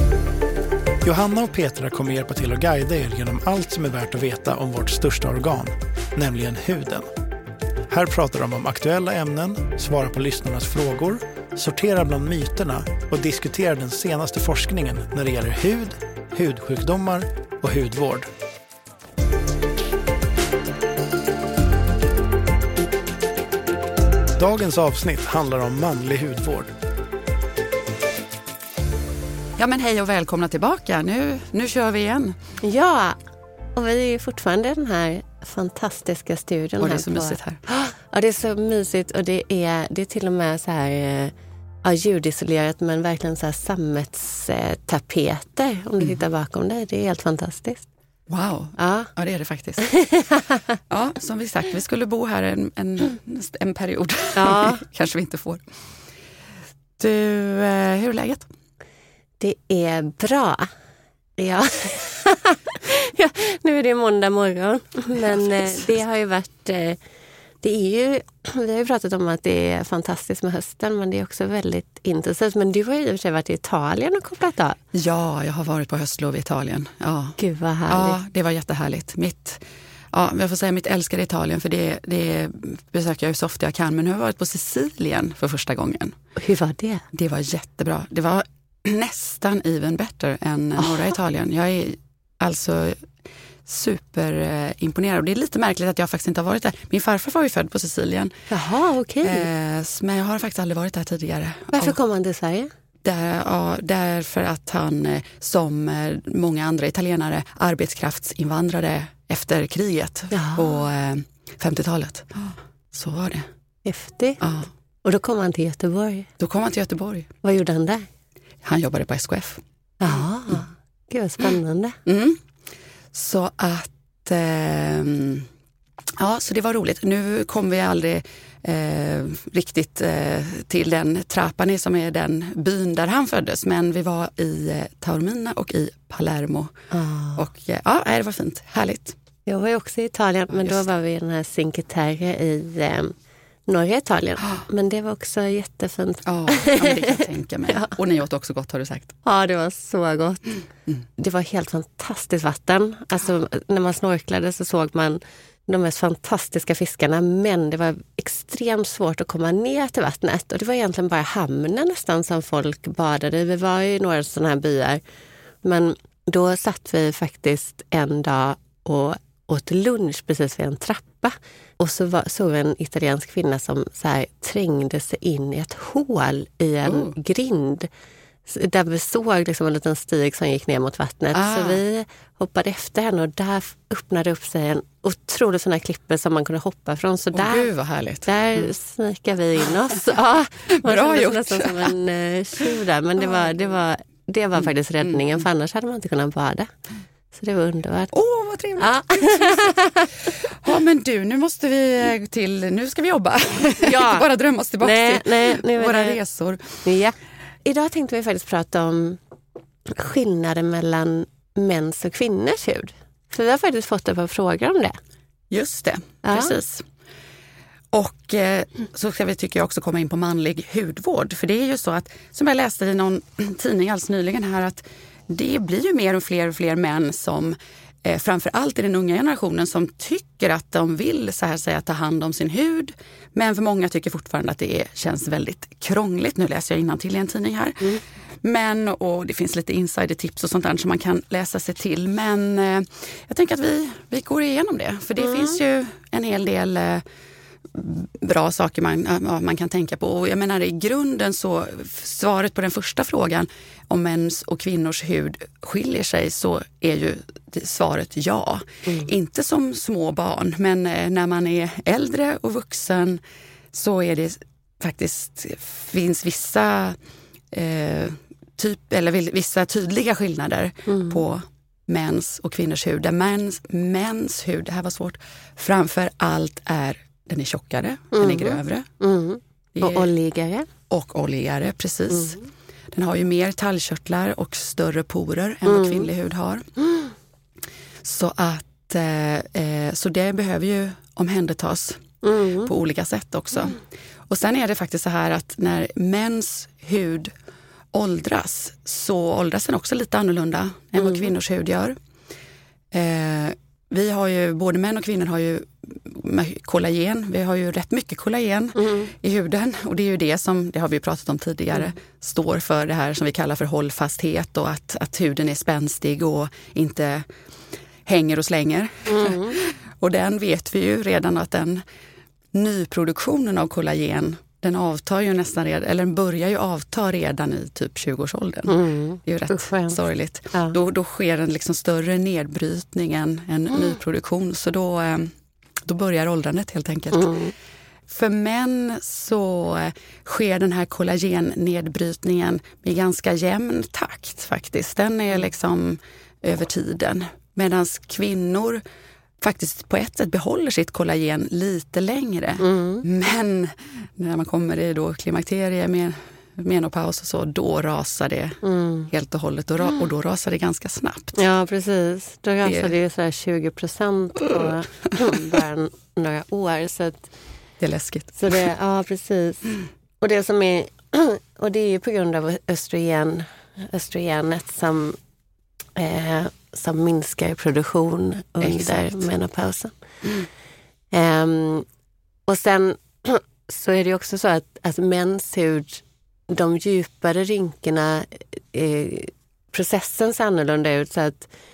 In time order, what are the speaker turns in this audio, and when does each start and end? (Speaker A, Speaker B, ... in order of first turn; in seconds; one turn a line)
Speaker A: 1.0-7.1
Speaker A: 7.9-18.3
Speaker A: 24.4-26.7
Speaker B: 29.6-32.4
Speaker C: 32.6-33.2
Speaker C: 33.8-41.3
Speaker B: 36.8-37.6
Speaker C: 41.8-47.9
Speaker B: 48.3-50.0
Speaker C: 48.8-49.1
Speaker C: 49.8-50.6
Speaker B: 50.9-55.6
Speaker C: 54.4-54.8
Speaker B: 57.0-58.5
Speaker C: 59.4-60.7
Speaker C: 61.4-67.0
Speaker B: 65.3-65.8
Speaker C: 67.6-74.8
Speaker B: 74.9-79.6
Speaker C: 77.4-78.2
Speaker B: 80.1-86.2
Speaker C: 86.4-87.0
Speaker B: 87.1-93.1
Speaker B: 93.7-98.3
Speaker C: 98.5-99.5
Speaker B: 99.2-102.0
Speaker C: 101.7-102.7
Speaker B: 103.0-113.5
Speaker C: 110.3-110.8
Speaker C: 113.8-114.4
Speaker B: 114.4-114.7
Speaker C: 115.0-116.3
Speaker B: 116.4-117.3
Speaker C: 117.4-118.1
Speaker B: 118.6-120.2
Speaker C: 120.0-122.0
Speaker B: 122.1-122.4
Speaker B: 123.1-125.5
Speaker B: 126.2-136.7
Speaker C: 136.9-137.4
Speaker B: 137.4-139.2
Speaker C: 139.5-143.1
Speaker C: 143.7-147.9
Speaker B: 146.3-149.2
Speaker C: 149.2-150.6
Speaker C: 151.2-165.0
Speaker C: 165.6-177.9
Speaker B: 176.9-177.1
Speaker C: 178.5-187.7
Speaker B: 181.3-181.8
Speaker B: 187.3-188.7
Speaker C: 188.3-196.7
Speaker B: 190.8-191.9
Speaker C: 197.3-198.1
Speaker B: 198.1-206.8
Speaker C: 198.8-200.1
Speaker C: 203.8-204.3
Speaker C: 204.8-206.2
Speaker C: 206.8-209.2
Speaker C: 209.9-215.0
Speaker B: 215.5-216.8
Speaker C: 216.2-216.6
Speaker B: 217.9-247.0
Speaker C: 245.2-245.6
Speaker B: 247.7-263.2
Speaker B: 263.7-267.0
Speaker B: 267.5-278.9
Speaker C: 270.9-271.2
Speaker C: 278.1-280.7
Speaker B: 279.8-280.1
Speaker B: 280.9-282.4
Speaker B: 282.9-286.7
Speaker C: 285.7-286.1
Speaker B: 288.0-292.0
Speaker C: 292.2-292.7
Speaker B: 292.6-293.8
Speaker B: 294.3-297.3
Speaker B: 297.9-302.0
Speaker C: 301.0-301.3
Speaker B: 302.9-317.3
Speaker C: 308.8-309.1
Speaker B: 318.1-321.8
Speaker C: 319.1-319.6
Speaker B: 322.5-335.3
Speaker C: 328.7-330.0
Speaker B: 335.9-337.4
Speaker C: 337.1-337.5
Speaker B: 338.1-348.8
Speaker B: 349.4-361.4
Speaker C: 352.6-353.0
Speaker C: 358.6-359.1
Speaker C: 361.4-367.2
Speaker B: 362.6-362.9
Speaker B: 367.8-368.6
Speaker C: 368.4-375.2
Speaker C: 376.0-379.9
Speaker B: 378.6-379.1
Speaker C: 381.1-381.9
Speaker C: 382.5-391.5